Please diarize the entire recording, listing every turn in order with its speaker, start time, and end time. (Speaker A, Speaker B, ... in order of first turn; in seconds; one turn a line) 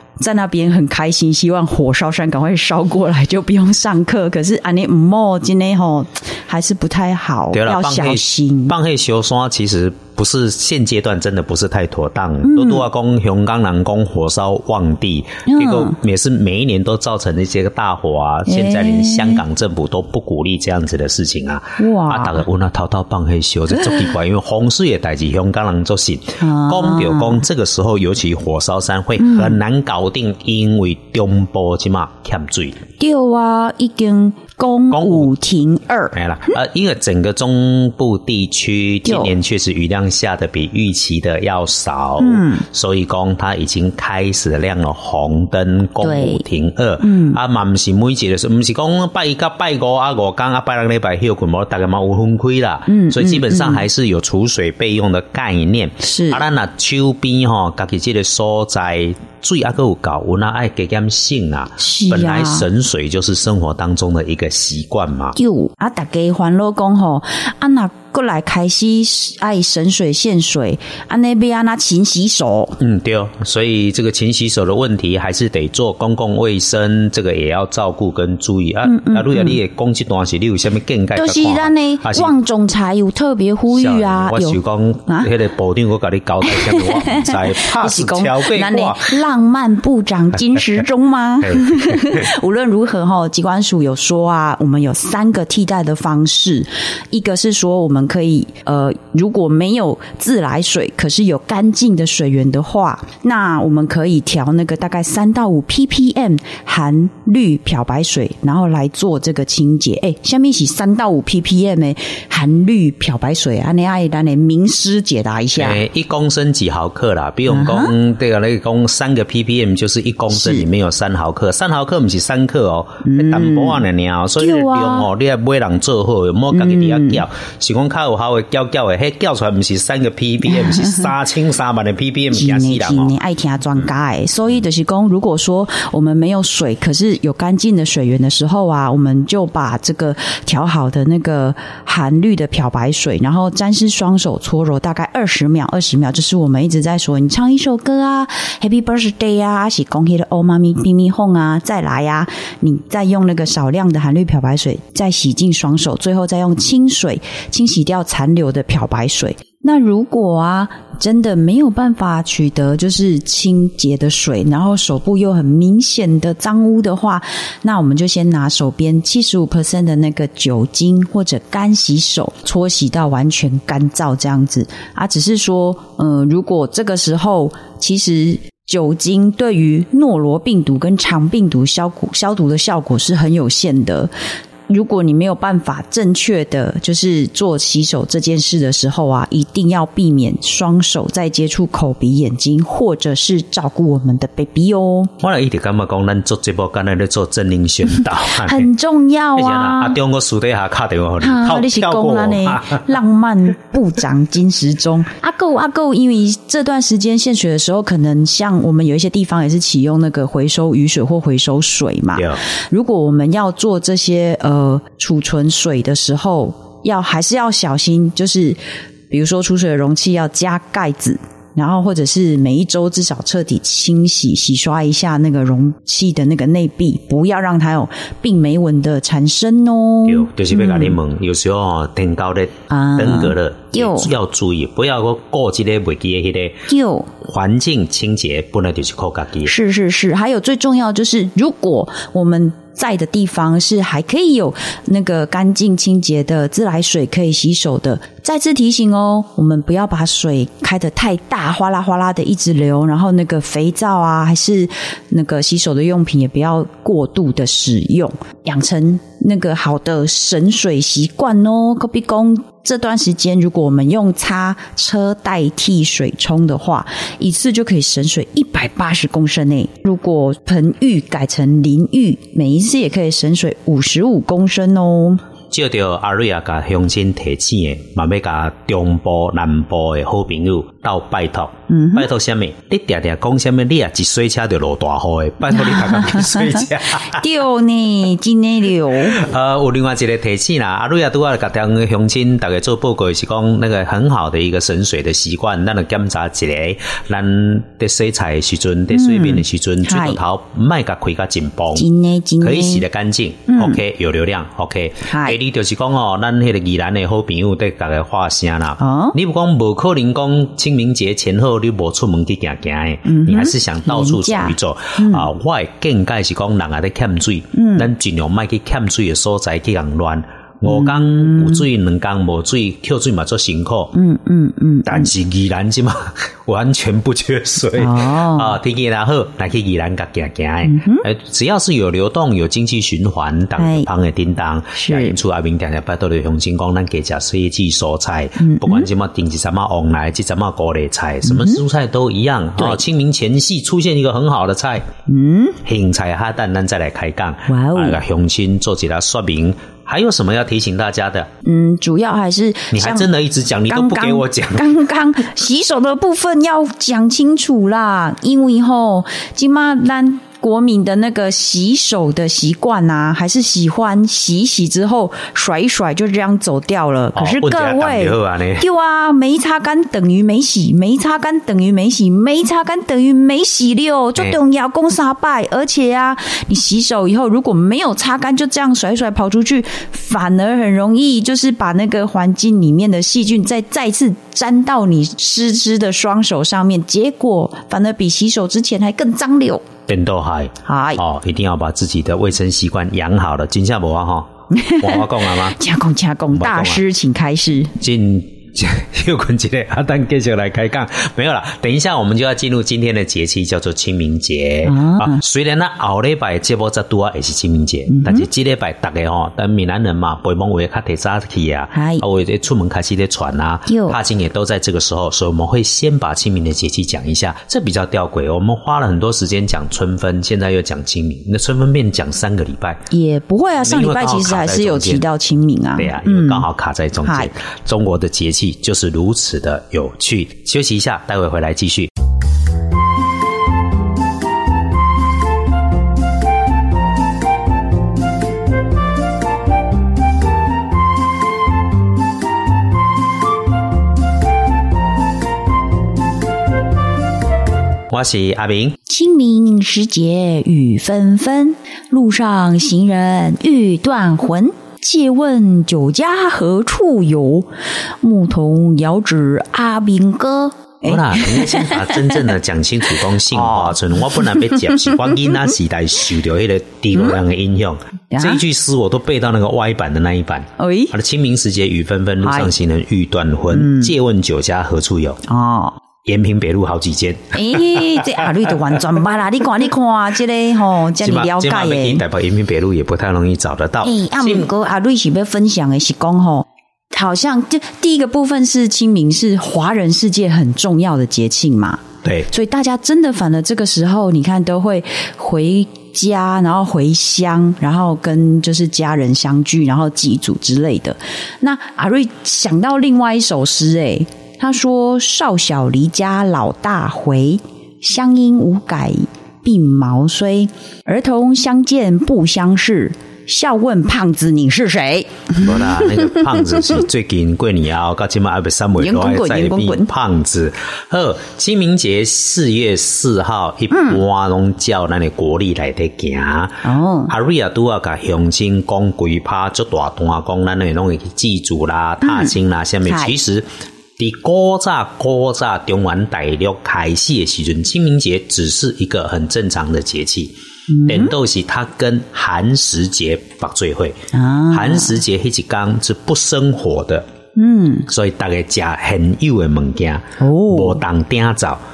Speaker A: 0.2-8.8
Speaker B: 7.5-32.8
Speaker A: 12.4-12.9
Speaker A: 15.5-16.0
Speaker A: 18.5-19.4
Speaker A: 21.8-22.4
Speaker A: 26.4-27.4
Speaker A: 29.2-29.6
Speaker A: 33.0-36.5
Speaker B: 34.9-35.3
Speaker B: 36.1-65.4
Speaker A: 39.0-39.3
Speaker A: 42.2-42.6
Speaker A: 46.0-46.4
Speaker A: 47.0-47.4
Speaker A: 52.9-53.9
Speaker A: 56.0-56.4
Speaker A: 61.8-62.7
Speaker A: 65.4-72.8
Speaker B: 72.8-82.3
Speaker A: 78.8-79.6
Speaker A: 81.2-85.3
Speaker B: 83.7-89.1
Speaker A: 86.4-115.8
Speaker B: 91.4-92.3
Speaker B: 115.6-133.1
Speaker A: 117.5-117.9
Speaker A: 120.3-120.7
Speaker A: 123.0-123.8
Speaker A: 124.4-125.1
Speaker A: 126.5-127.2
Speaker A: 130.5-131.1
Speaker A: 132.3-184.1
Speaker A: 184.7-195.1
Speaker B: 195.2-198.7
Speaker A: 198.2-200.0
Speaker B: 199.3-202.9
Speaker A: 201.2-218.6
Speaker B: 212.2-212.4
Speaker A: 219.1-231.0
Speaker B: 230.1-236.6
Speaker A: 232.7-234.1
Speaker A: 236.7-237.1
Speaker B: 237.2-239.5
Speaker A: 239.4-275.2
Speaker B: 275.5-287.3
Speaker A: 281.7-282.1
Speaker A: 285.5-289.2
Speaker B: 289.1-301.9
Speaker A: 298.9-300.2
Speaker A: 301.8-302.9
Speaker B: 302.4-324.0
Speaker A: 303.5-303.8
Speaker A: 305.1-305.4
Speaker A: 308.8-309.2
Speaker A: 313.1-315.3
Speaker A: 317.5-317.9
Speaker A: 320.6-321.7
Speaker A: 323.9-325.1
Speaker B: 324.9-344.9
Speaker A: 327.8-328.6
Speaker A: 330.6-331.1
Speaker A: 333.6-333.9
Speaker A: 334.8-335.2
Speaker A: 338.4-338.9
Speaker A: 341.2-341.6
Speaker A: 345.1-345.6
Speaker B: 345.6-351.3
Speaker A: 347.5-348.0
Speaker A: 351.4-353.1
Speaker B: 352.7-354.8
Speaker A: 353.7-389.7
Speaker B: 367.1-368.7
Speaker B: 389.9-395.6
Speaker A: 390.6-391.0
Speaker A: 394.5-397.8
Speaker B: 396.3-396.8
Speaker B: 397.8-422.8
Speaker A: 404.6-405.2
Speaker A: 407.9-408.3
Speaker A: 411.7-412.1
Speaker A: 413.7-414.0
Speaker A: 422.9-426.5
Speaker B: 423.6-425.1
Speaker B: 425.8-431.9
Speaker A: 427.0-427.3
Speaker B: 447.9-448.8
Speaker A: 448.9-457.5
Speaker A: 458.0-462.3
Speaker B: 460.8-475.2
Speaker A: 463.3-465.5
Speaker A: 468.1-468.4
Speaker A: 470.6-470.9
Speaker A: 472.2-472.5
Speaker A: 473.5-473.9
Speaker A: 475.3-475.8
Speaker B: 476.1-478.2
Speaker A: 477.3-482.0
Speaker B: 481.0-484.5
Speaker A: 483.8-516.6
Speaker B: 515.4-544.0
Speaker A: 518.8-519.9
Speaker A: 523.7-524.0
Speaker A: 526.6-527.1
Speaker A: 532.0-533.1
Speaker A: 540.7-541.1
Speaker A: 544.1-545.0
Speaker B: 544.5-547.1
Speaker A: 547.4-547.9
Speaker B: 547.9-551.6
Speaker A: 550.2-550.8